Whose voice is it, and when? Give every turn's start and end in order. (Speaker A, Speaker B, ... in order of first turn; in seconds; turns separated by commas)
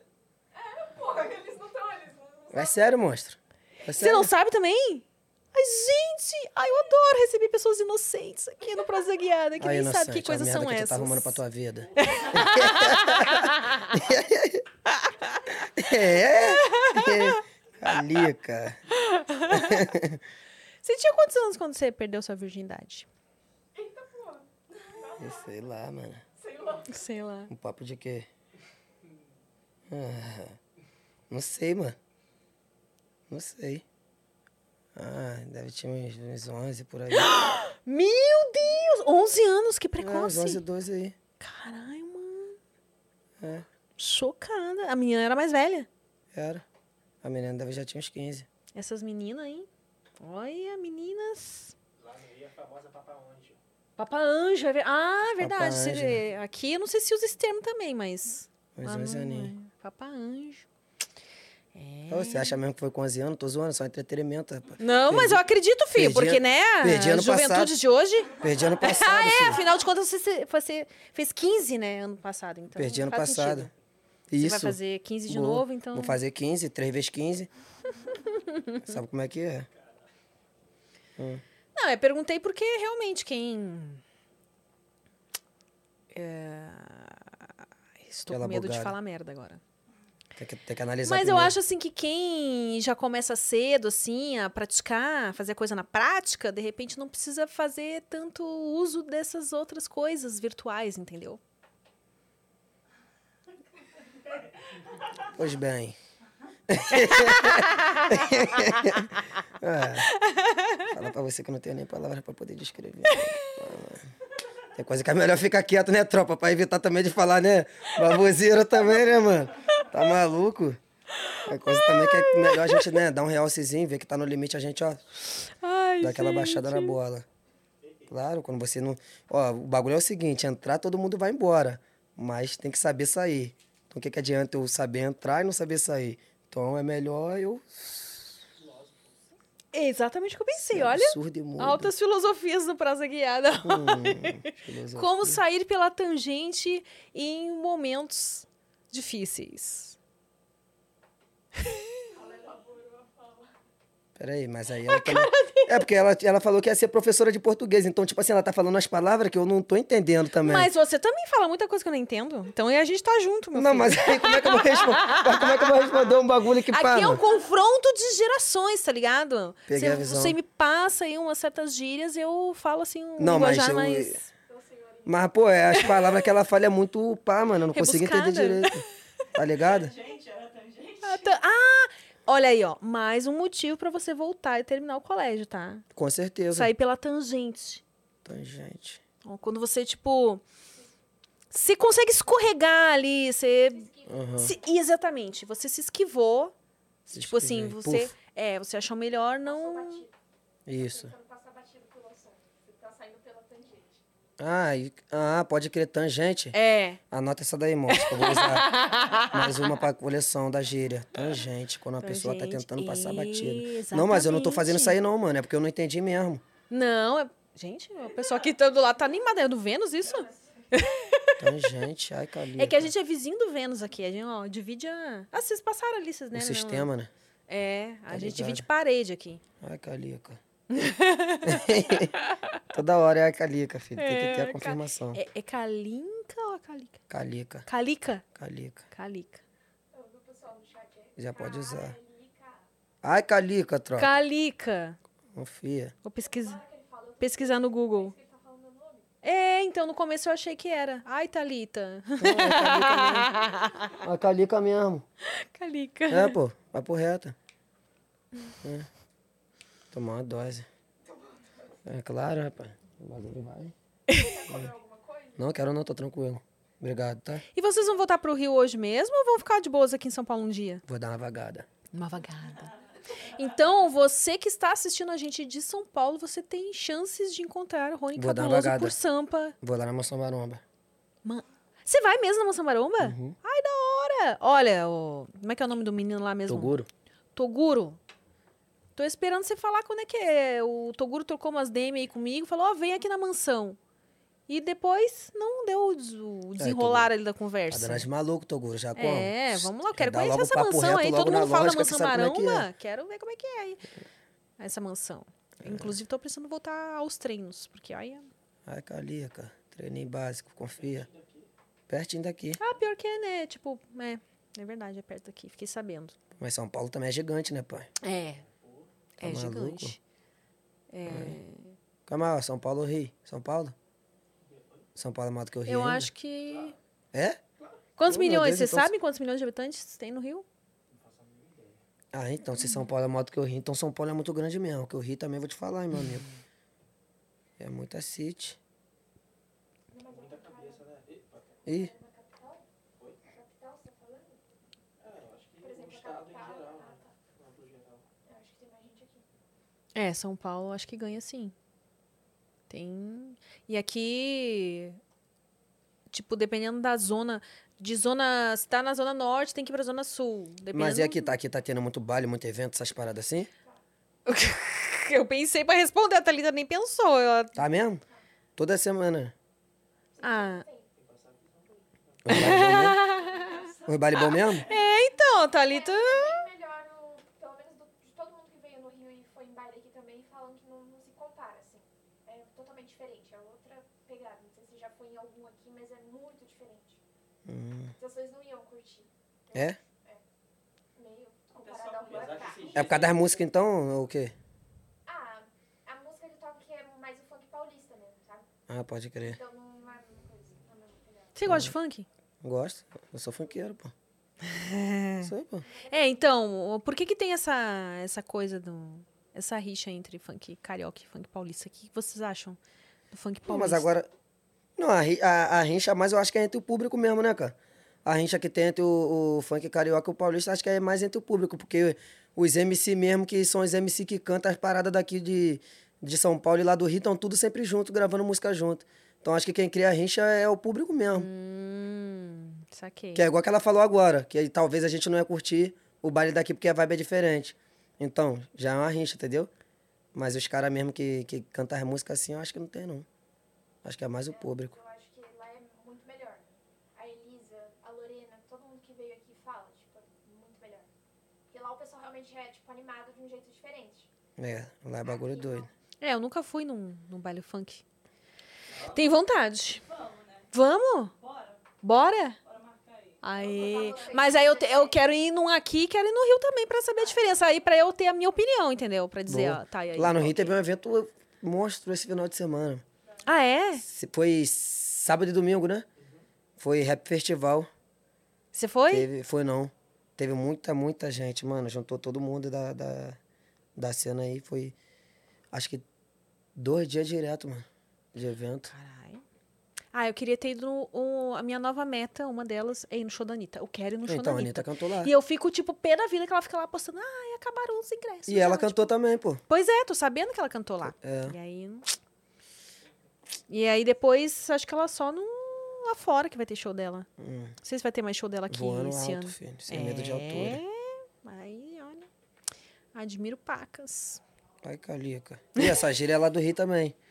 Speaker A: 0.6-3.0, Speaker B: 2.5-4.3, Speaker C: 3.9-11.4, Speaker B: 9.6-14.6, Speaker C: 12.0-13.9, Speaker C: 14.9-15.5, Speaker B: 15.6-18.8, Speaker C: 16.3-17.4, Speaker C: 18.9-19.9, Speaker B: 19.5-20.2, Speaker C: 20.8-23.1, Speaker A: 23.7-25.5, Speaker B: 25.2-26.2, Speaker A: 26.4-27.0, Speaker C: 26.9-27.5, Speaker B: 27.5-28.3, Speaker B: 29.9-30.6, Speaker B: 31.3-32.0, Speaker B: 33.3-33.8, Speaker B: 34.9-37.3, Speaker C: 37.1-40.6, Speaker B: 40.0-41.1, Speaker C: 41.4-42.6, Speaker B: 43.4-43.6, Speaker C: 44.0-45.9, Speaker B: 46.3-46.6, Speaker B: 47.2-48.5, Speaker C: 48.7-49.7, Speaker C: 50.2-51.7, Speaker D: 52.0-53.6, Speaker C: 54.0-60.6, Speaker B: 55.4-56.2, Speaker B: 58.8-59.5, Speaker C: 61.7-62.6, Speaker B: 62.1-67.8, Speaker C: 64.8-73.7, Speaker B: 68.4-69.6, Speaker B: 72.7-73.7, Speaker B: 74.3-77.5, Speaker C: 74.4-76.2, Speaker C: 78.2-78.8, Speaker B: 78.8-79.7, Speaker B: 81.2-81.4, Speaker C: 81.7-84.0, Speaker C: 86.1-87.5, Speaker C: 88.0-89.6, Speaker B: 88.3-89.0, Speaker B: 90.4-91.6, Speaker C: 91.0-101.4, Speaker B: 105.3-106.0, Speaker B: 106.7-110.1, Speaker C: 106.9-109.0, Speaker C: 110.1-110.9, Speaker B: 110.9-114.1, Speaker C: 113.1-113.3, Speaker B: 114.7-120.8, Speaker C: 121.1-123.0, Speaker B: 121.4-125.0, Speaker C: 125.4-127.0, Speaker B: 126.0-127.2, Speaker D: 127.8-128.1, Speaker B: 128.1-138.3, Speaker D: 138.6-139.3, Speaker C: 139.7-150.0, Speaker B: 140.6-141.9, Speaker B: 143.6-145.4, Speaker C: 151.6-151.8, Speaker A: 152.1-153.5, Speaker B: 154.2-160.7, Speaker C: 154.9-155.8, Speaker C: 160.4-165.7, Speaker B: 163.5-167.2, Speaker C: 166.7-174.3, Speaker B: 169.7-170.4, Speaker B: 173.2-174.2, Speaker A: 174.4-175.2, Speaker B: 175.1-179.9, Speaker C: 177.7-178.8, Speaker E: 179.4-181.4, Speaker C: 181.0-185.8, Speaker B: 185.9-186.7, Speaker C: 186.5-187.8, Speaker B: 188.2-189.0, Speaker C: 189.2-190.4, Speaker C: 191.5-196.5, Speaker A: 193.7-194.6, Speaker B: 194.1-194.5, Speaker C: 197.1-200.0, Speaker B: 197.1-198.1, Speaker A: 199.4-200.1, Speaker B: 200.7-201.1, Speaker A: 200.8-204.0, Speaker B: 204.4-206.6, Speaker C: 206.5-207.0, Speaker B: 207.1-208.8, Speaker C: 207.9-209.8, Speaker B: 209.3-216.4, Speaker C: 212.0-215.0, Speaker C: 216.7-221.6, Speaker B: 221.4-222.9, Speaker C: 222.6-226.9, Speaker B: 226.3-227.1, Speaker C: 227.5-229.4, Speaker B: 228.1-228.7, Speaker B: 229.6-230.4, Speaker C: 230.7-232.4, Speaker B: 231.4-232.1, Speaker B: 232.7-235.2, Speaker C: 233.9-237.0, Speaker B: 237.1-237.7, Speaker C: 237.7-238.2, Speaker B: 238.3-238.8, Speaker C: 238.9-239.4, Speaker A: 239.9-242.6, Speaker B: 241.2-242.0, Speaker B: 243.0-244.1, Speaker C: 243.9-245.0, Speaker B: 245.3-245.9, Speaker C: 246.0-246.6, Speaker A: 246.2-249.1, Speaker C: 247.2-248.1, Speaker C: 249.2-254.0, Speaker B: 252.2-253.3, Speaker B: 254.0-255.0, Speaker C: 255.2-256.4, Speaker B: 256.1-257.4, Speaker B: 258.6-258.9, Speaker B: 259.9-260.7, Speaker B: 261.9-263.7, Speaker A: 264.1-265.5, Speaker B: 265.4-267.4, Speaker C: 267.5-270.8, Speaker B: 270.9-271.6, Speaker C: 271.9-272.7, Speaker C: 273.2-279.6, Speaker B: 278.1-279.0, Speaker B: 279.6-280.6, Speaker C: 281.2-286.8, Speaker B: 283.0-283.4, Speaker B: 286.5-286.9, Speaker C: 287.3-288.0, Speaker C: 288.9-293.8, Speaker C: 294.5-298.1, Speaker B: 296.6-297.1, Speaker B: 297.7-302.7, Speaker C: 298.9-303.8, Speaker C: 304.6-308.3, Speaker B: 305.6-305.9, Speaker B: 308.6-311.1, Speaker D: 310.8-311.5, Speaker B: 311.9-312.6, Speaker C: 312.6-316.1, Speaker B: 316.4-317.9, Speaker C: 318.0-318.4, Speaker D: 318.3-318.9, Speaker C: 319.2-320.0, Speaker B: 319.2-320.0, Speaker C: 320.9-321.7, Speaker B: 321.1-321.4, Speaker B: 322.1-323.7, Speaker D: 324.4-324.9, Speaker B: 324.9-326.1, Speaker C: 325.7-326.8, Speaker D: 326.4-326.8, Speaker B: 327.1-327.4, Speaker C: 328.0-330.4, Speaker B: 328.1-328.9, Speaker D: 330.9-331.8, Speaker B: 332.1-336.2, Speaker B: 337.6-338.6, Speaker A: 339.9-340.9, Speaker D: 340.1-341.6, Speaker A: 341.6-342.6, Speaker B: 341.6-341.9, Speaker A: 343.2-344.4, Speaker D: 345.0-348.1, Speaker A: 345.6-347.1, Speaker A: 348.2-349.2, Speaker C: 349.9-351.5, Speaker C: 352.7-355.0, Speaker C: 356.1-361.4, Speaker B: 360.7-363.5, Speaker C: 364.2-367.6, Speaker B: 367.5-368.0, Speaker B: 368.6-369.3, Speaker A: 370.1-370.9, Speaker C: 370.2-370.6, Speaker D: 370.9-372.6, Speaker B: 372.2-373.0, Speaker C: 372.3-373.5, Speaker A: 373.2-373.8, Speaker B: 373.9-374.7, Speaker C: 374.5-376.4, Speaker A: 375.5-387.0, Speaker B: 387.4-387.9, Speaker A: 388.0-390.2, Speaker B: 389.5-389.8, Speaker A: 390.9-392.8, Speaker E: 391.7-392.8, Speaker D: 391.8-393.4, Speaker B: 392.7-394.3, Speaker A: 395.0-398.5, Speaker B: 398.7-399.4, Speaker A: 399.2-401.3, Speaker C: 401.3-402.1, Speaker B: 401.4-401.7, Speaker B: 402.4-403.9, Speaker C: 404.4-405.3, Speaker B: 405.2-405.6, Speaker A: 405.6-406.3, Speaker C: 405.9-412.6, Speaker C: 413.1-413.9, Speaker B: 413.5-414.1, Speaker B: 414.8-431.3, Speaker C: 431.1-433.2, Speaker B: 433.1-439.5, Speaker B: 440.1-443.1, Speaker B: 443.8-444.8, Speaker A: 444.3-446.4, Speaker A: 446.9-450.9, Speaker A: 451.5-454.1, Speaker B: 454.4-455.7, Speaker A: 455.0-455.7, Speaker C: 456.0-457.8, Speaker D: 458.7-459.0, Speaker E: 458.8-459.2, Speaker C: 458.9-459.8, Speaker E: 459.8-460.5, Speaker C: 460.5-461.1, Speaker E: 461.1-461.8, Speaker C: 461.8-462.4, Speaker E: 462.4-463.4, Speaker C: 463.2-470.6, Speaker A: 463.4-465.0, Speaker B: 469.3-472.8, Speaker C: 473.2-473.8, Speaker B: 473.8-475.9, Speaker B: 476.6-477.7, Speaker C: 478.5-479.1, Speaker B: 478.9-483.2, Speaker B: 483.8-484.7, Speaker B: 485.5-485.8, Speaker B: 486.6-488.7, Speaker C: 488.7-489.2, Speaker C: 489.9-498.9, Speaker B: 494.1-495.1, Speaker B: 498.3-499.4, Speaker C: 499.5-501.9, Speaker B: 500.8-501.4, Speaker C: 503.5-507.1, Speaker B: 507.2-507.5, Speaker C: 507.6-512.1, Speaker B: 508.5-510.6, Speaker C: 512.9-514.2, Speaker B: 514.6-517.0, Speaker C: 515.5-515.8